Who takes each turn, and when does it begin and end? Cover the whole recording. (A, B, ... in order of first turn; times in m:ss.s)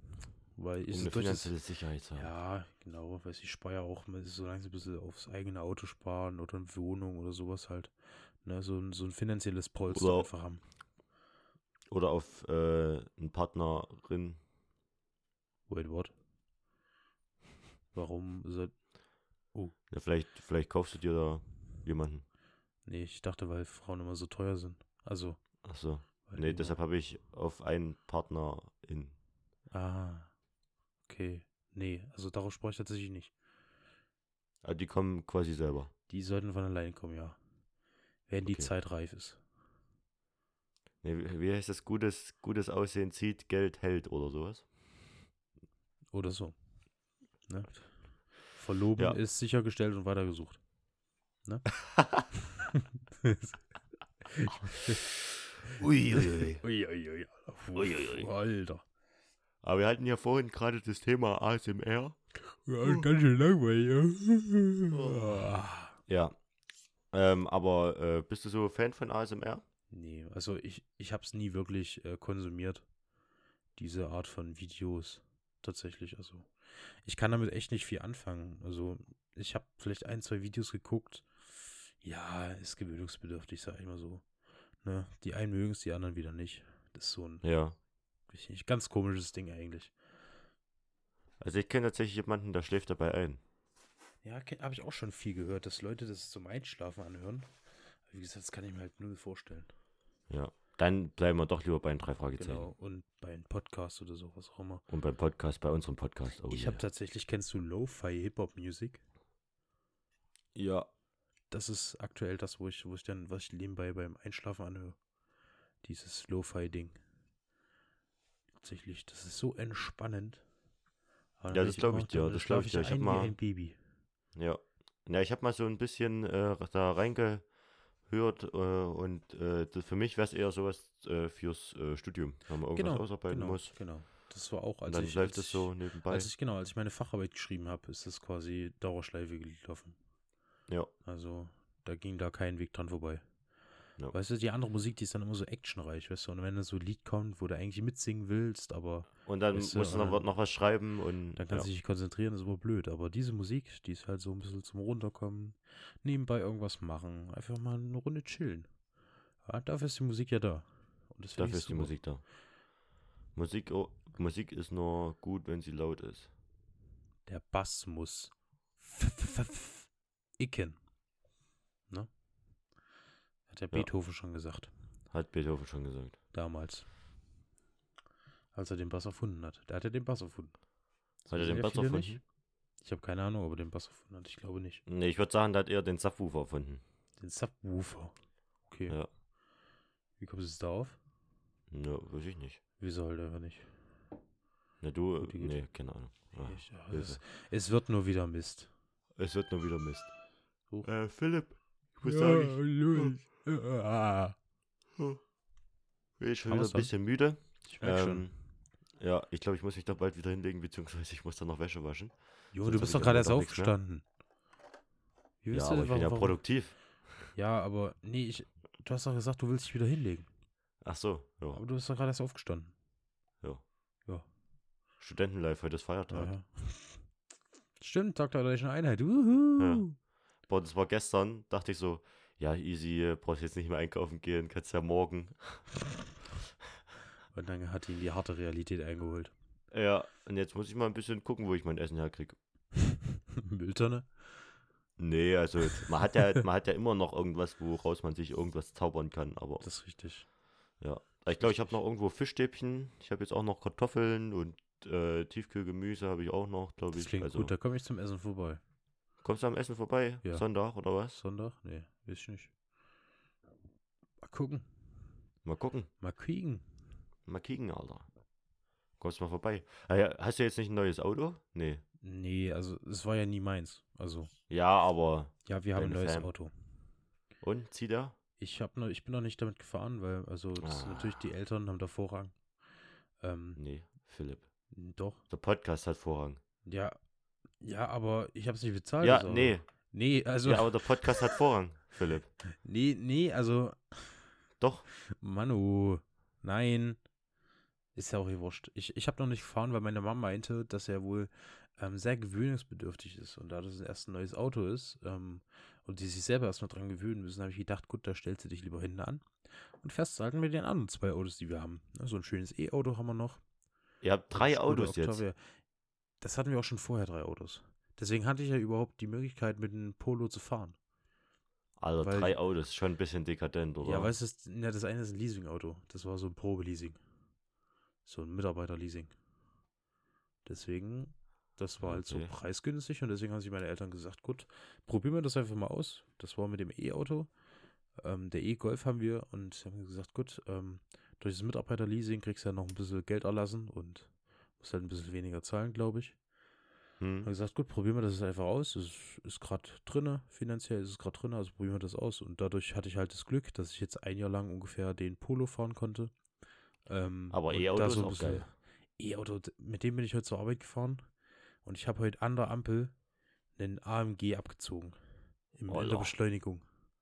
0:00.6-0:01.5 A
0:00.9-0:02.3 B
0:02.2-0:10.6 A
0:09.9-0:10.3 B
0:11.9-0:14.4 B
0:15.7-0:16.1 A
0:17.9-0:18.9 A
0:19.9-0:22.2 B
0:22.9-0:25.4 A
0:25.6-0:29.2 B
0:26.2-0:26.8 A
0:29.7-0:30.3 A
0:31.1-0:33.3 A
0:34.6-0:35.9 B
0:36.1-0:37.4 A
0:38.3-0:39.4 A
0:41.0-0:44.7 B
0:46.1-0:46.6 A
0:47.5-0:50.6 A
0:52.0-0:52.3 B
0:52.7-0:53.6 A
0:54.2-0:55.0 A
0:55.7-0:56.6 B
0:56.1-0:58.8 A
0:57.8-0:58.3 B
0:59.6-1:02.2 B
1:02.5-1:06.0 A
1:04.9-1:05.4 B
1:06.1-1:06.4 B
1:07.1-1:09.6 B
1:09.9-1:12.8 A
1:13.8-1:24.2 A
1:24.8-1:27.4 A
1:27.4-1:27.8 B
1:28.3-1:29.9 A
1:31.4-1:33.4 B
1:34.2-1:37.5 A
1:38.1-1:39.7 A
1:40.3-1:42.7 B
1:42.4-1:44.8 A
1:44.9-1:46.8 B
1:46.5-1:49.0 A
1:50.6-1:50.9 B
1:51.5-1:55.0 A
1:55.8-1:57.0 A
1:58.6-2:00.4 A
2:01.4-2:03.8 A
2:01.5-2:03.3 B
2:04.4-2:07.5 B
2:08.1-2:13.8 B
2:12.7-2:20.0 A
2:14.8-2:16.3 B
2:21.0-2:23.2 A
2:24.1-2:30.3 A
2:29.3-2:31.7 B
2:31.4-2:38.7 A
2:39.4-2:42.0 A
2:41.4-2:42.2 B
2:43.4-2:46.3 B
2:47.3-2:50.8 A
2:53.5-2:54.7 A
2:55.1-2:56.2 B
2:56.3-2:56.9 A
2:58.5-3:00.5 A
3:01.2-3:02.2 A
3:01.3-3:02.2 B
3:02.8-3:04.8 A
3:04.9-3:06.8 B
3:07.2-3:08.1 A
3:08.7-3:09.0 A
3:10.2-3:11.0 A
3:11.7-3:12.6 B
3:12.8-3:13.7 A
3:14.8-3:17.2 B
3:15.2-3:15.6 A
3:16.4-3:18.7 A
3:19.2-3:20.1 B
3:20.8-3:23.1 B
3:22.0-3:24.4 A
3:26.2-3:28.3 B
3:26.5-3:26.9 A
3:27.6-3:28.3 A
3:29.0-3:33.8 B
3:32.5-3:34.0 A
3:35.4-3:36.4 A
3:35.5-3:36.8 B
3:37.3-3:40.3 A
3:40.8-3:41.6 B
3:41.5-3:42.7 A
3:45.0-3:46.3 B
3:46.1-3:47.0 A
3:47.8-3:50.0 A
3:49.6-3:49.8 B
3:50.5-3:55.7 B
3:57.3-3:59.3 A
3:59.7-4:02.4 B
4:02.8-4:04.5 A
4:05.0-4:09.6 B
4:09.6-4:10.3 A
4:10.8-4:17.5 B
4:11.4-4:11.7 A
4:16.9-4:18.6 A
4:19.2-4:21.2 B
4:21.1-4:22.5 A
4:24.2-4:24.7 A
4:25.4-4:25.9 B
4:26.0-4:26.7 A
4:27.3-4:28.1 B
4:29.0-4:31.8 B
4:32.0-4:34.3 A
4:34.5-4:36.3 B
4:35.4-4:36.5 A
4:37.4-4:38.2 B
4:38.4-4:42.4 A
4:40.6-4:41.2 B
4:43.2-4:43.6 A
4:43.6-4:44.5 B
4:44.7-4:45.2 A
4:45.3-4:46.4 B
4:46.6-4:47.0 A
4:47.6-4:51.4 A
4:49.0-4:49.7 B
4:50.4-4:52.3 B
4:52.5-4:54.3 A
4:54.6-4:54.9 B
4:55.0-4:57.0 A
4:58.0-5:13.4 A
5:14.0-5:15.2 B
5:14.3-5:15.4 A
5:16.2-5:20.8 A
5:21.8-5:24.1 B
5:22.0-5:22.4 A
5:23.8-5:27.0 A
5:28.1-5:29.1 A
5:30.4-5:37.3 A
5:31.8-5:32.3 B
5:38.0-5:46.2 A
5:47.0-5:47.3 B
5:47.2-5:56.1 A
5:56.9-6:01.0 A
5:57.3-5:58.5 B
6:01.6-6:02.9 A
6:03.6-6:05.0 A
6:05.6-6:06.6 A
6:05.7-6:06.1 B